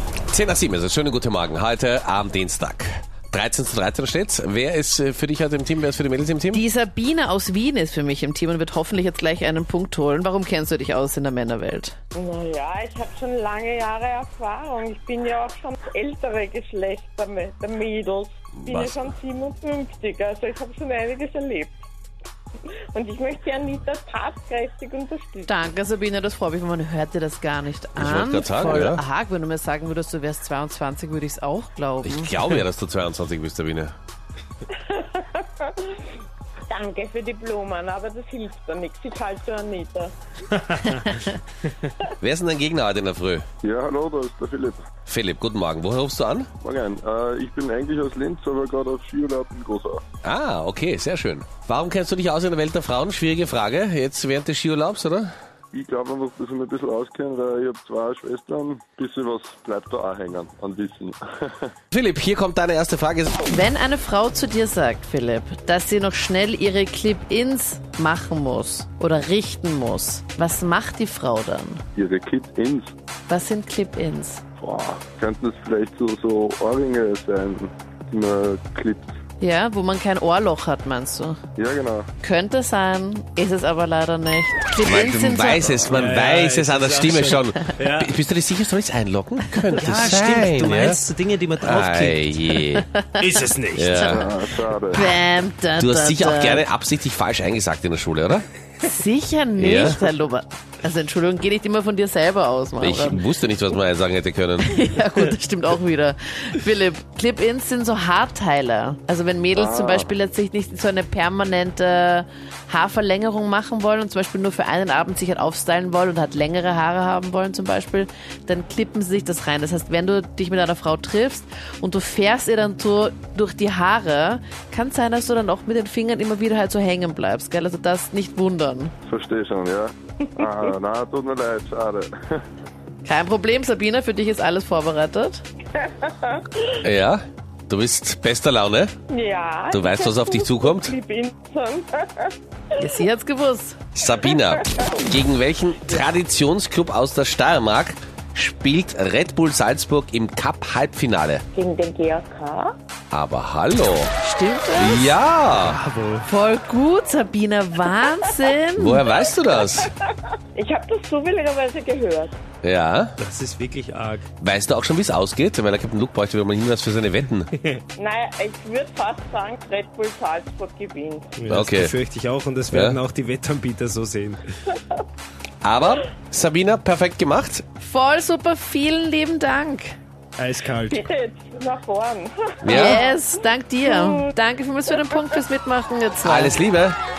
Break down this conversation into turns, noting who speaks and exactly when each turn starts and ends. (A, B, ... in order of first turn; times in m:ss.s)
0:00.3-0:06.6 A
0:06.5-0:12.0 B
0:12.2-0:21.8 C
0:18.6-0:19.1 A
0:22.9-0:25.5 C
0:25.5-0:32.4 B
0:28.0-0:29.0 A
0:32.0-0:33.9 A
0:34.9-0:35.9 C
0:36.7-0:40.1 C
0:41.0-0:41.2 B
0:42.2-0:43.4 A
0:43.6-0:44.8 D
0:45.1-0:46.5 A
0:46.6-0:50.0 D
0:50.2-0:55.3 A
0:55.7-1:01.7 D
1:01.9-1:03.4 A
1:03.5-1:11.8 B
1:12.0-1:12.9 D
1:13.3-1:14.4 B
1:14.6-1:19.1 D
1:19.4-1:21.4 B
1:21.6-1:22.1 D
1:22.2-1:26.0 B
1:24.8-1:31.0 A
1:25.9-1:28.1 E
1:29.8-1:32.3 E
1:31.6-1:32.8 A
1:32.7-1:36.6 B
1:33.2-1:34.1 E
1:33.8-1:34.3 A
1:34.1-1:35.1 D
1:35.8-1:38.4 A
1:38.8-1:43.2 B
1:39.6-1:40.0 A
1:42.8-1:44.8 A
1:44.6-2:08.9 B
1:49.5-1:50.1 D
2:09.1-2:12.4 D
2:10.4-2:10.7 C
2:13.0-2:15.4 B
2:16.0-2:16.4 C
2:16.8-2:18.9 A
2:19.1-2:22.3 C
2:19.7-2:21.0 A
2:22.8-2:23.8 B
2:24.0-2:31.4 A
2:24.2-2:24.6 C
2:31.5-2:32.8 C
2:33.1-2:34.1 A
2:34.2-2:35.2 B
2:34.8-2:35.8 A
2:35.6-2:36.3 E
2:36.2-2:39.0 B
2:38.8-2:39.9 A
2:40.6-2:42.4 C
2:42.6-2:43.2 A
2:43.2-2:44.3 E
2:44.4-2:47.5 A
2:48.0-2:51.4 C
2:51.4-2:54.4 E
2:51.5-2:51.9 A
2:52.7-2:53.0 A
2:55.6-2:57.6 A
2:57.8-3:00.0 B
3:00.4-3:01.0 E
3:00.9-3:03.2 C
3:02.6-3:03.0 A
3:02.7-3:06.5 B
3:03.8-3:04.3 C
3:06.2-3:07.0 A